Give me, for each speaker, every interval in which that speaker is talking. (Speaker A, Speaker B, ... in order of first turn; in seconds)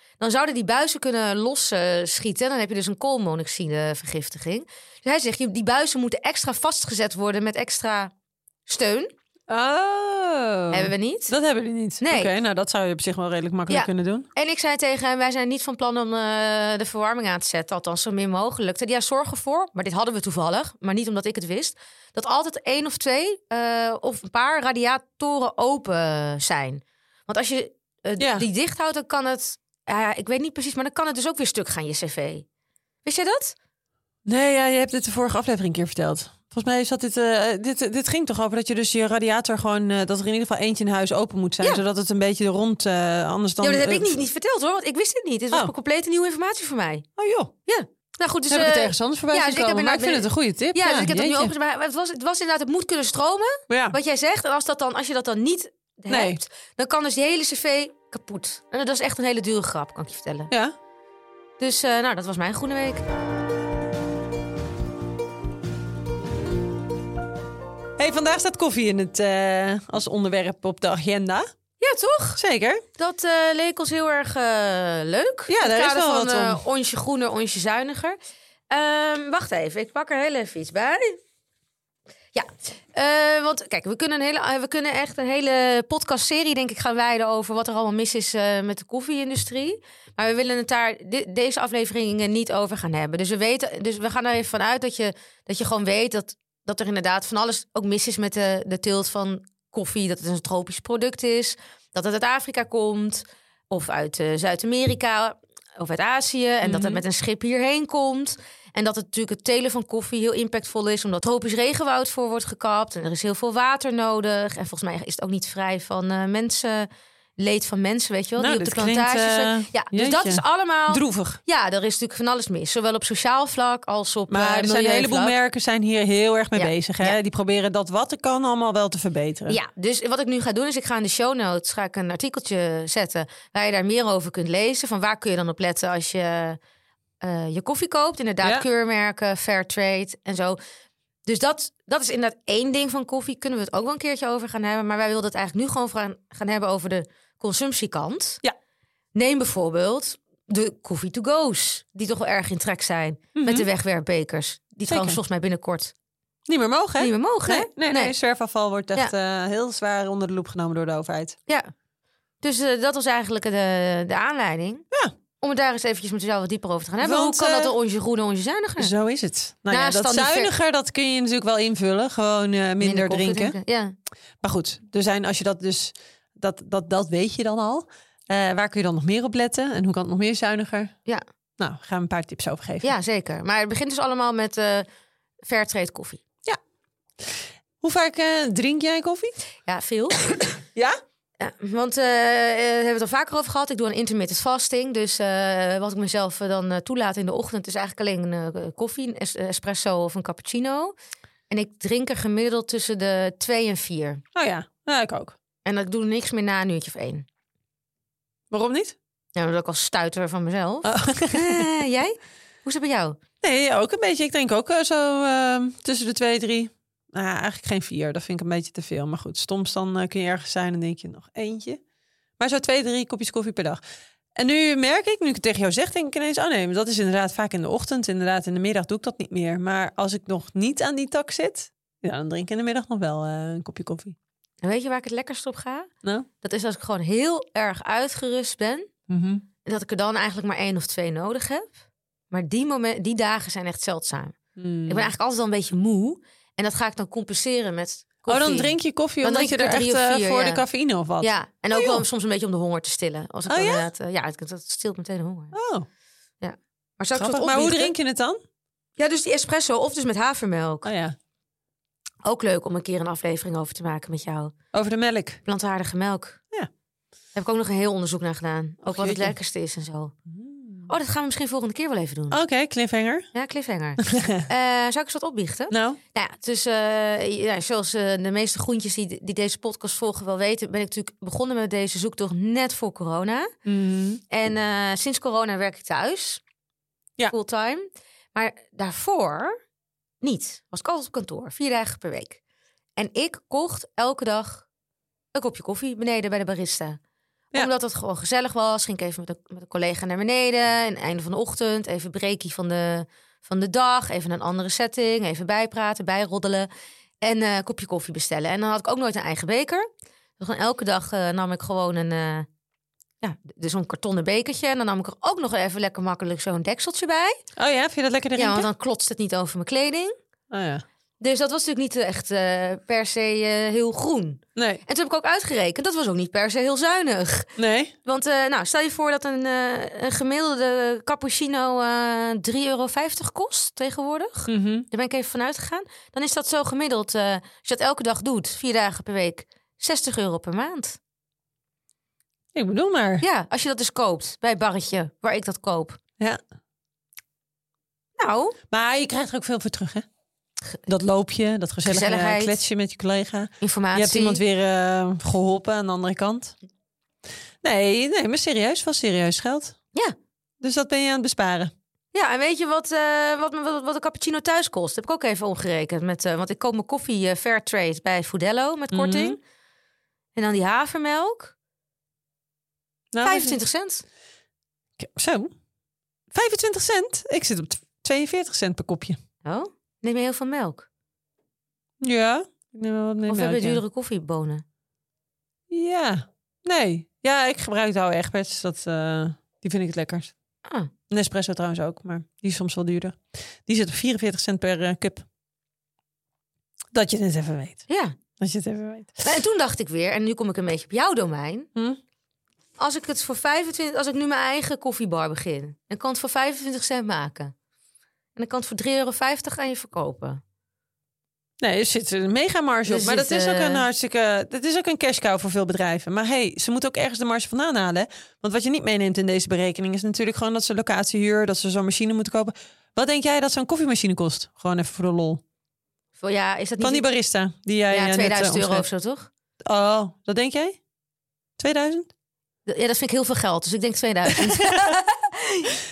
Speaker A: 0.2-8.1, 8.7-9.1, 10.7-11.3, 12.0-12.3, 13.7-32.5, 33.0-33.5, 43.6-47.0, 47.6-60.5, 61.6-63.0, 71.8-72.4, 73.0-78.2, 78.7-81.2, 82.3-125.3, 126.5-127.2, 129.5-136.6, 137.2-140.6, 141.2-148.4, 149.1-155.9, 157.0-158.1, 162.4-164.8, 165.4-168.9, 169.7-170.5, 172.8-173.9, 182.8-184.9, 185.4-186.2, 189.7-190.6, 191.4-200.9, 201.5-204.2, 205.6-207.2, 209.3-213.2, 234.6-235.9, 236.4-238.9, 239.6-241.8, 242.3-250.6, 251.2-255.5, 256.4-257.9, 259.0-260.9, 262.2-264.5, 265.4-266.4, 267.3-270.1, 270.9-272.4, 273.3-283.5, 284.3-286.4, 287.3-289.6, 290.2-292.4, 293.0-294.6, 295.3-297.0, 297.5-306.7, 307.2-309.9, 310.4-312.5, 313.2-317.4, 318.4-320.1, 321.2-327.5, 328.0-341.0, 343.2-346.0, 348.2-348.6, 351.8-352.6, 353.6-354.4, 362.1-369.4, 370.3-371.5, 373.2-374.0, 379.4-380.9, 383.3-384.6, 390.6-390.9, 397.9-398.1, 399.2-401.7, 402.8-407.5, 408.4-410.4, 412.9-413.8, 426.2-427.1, 427.9-429.3, 432.7-435.7
Speaker B: 9.5-14.3, 28.2-28.4, 34.2-44.2, 47.2-47.5, 48.5-51.5, 53.7-54.0, 56.1-56.4, 68.0-71.5, 72.4-72.8, 75.5-76.6, 106.6-107.0, 118.4-121.4, 124.3-129.6, 153.3-153.7, 154.9-155.2, 156.5-161.3, 167.0-167.7, 168.8-173.6, 174.4-180.9, 181.6-182.9, 187.2-189.3, 204.3-205.3, 208.5-208.9, 210.8-211.7, 213.4-221.8, 222.4-223.8, 224.3-234.2, 239.1-239.4, 244.6-245.1, 248.3-252.0, 253.5-253.9, 255.5-255.8, 257.1-258.4, 260.8-261.1, 264.7-265.4, 268.9-269.3, 270.3-270.9, 272.3-273.3, 274.0-274.5, 275.7-276.0, 283.6-284.2, 317.6-318.7, 320.5-320.8, 324.6-324.8, 327.6-327.9, 334.5-334.9, 342.5-343.2, 348.7-350.1, 350.9-356.6, 357.6-359.8, 360.6-361.7, 368.9-369.4, 373.1-373.6, 375.0-375.5, 376.3-379.2, 382.0-383.8, 385.7-390.3, 391.1-395.2, 396.9-397.9, 398.4-399.2, 411.6-425.4, 426.8-428.9, 429.6-430.8, 431.6-432.1, 434.4-434.9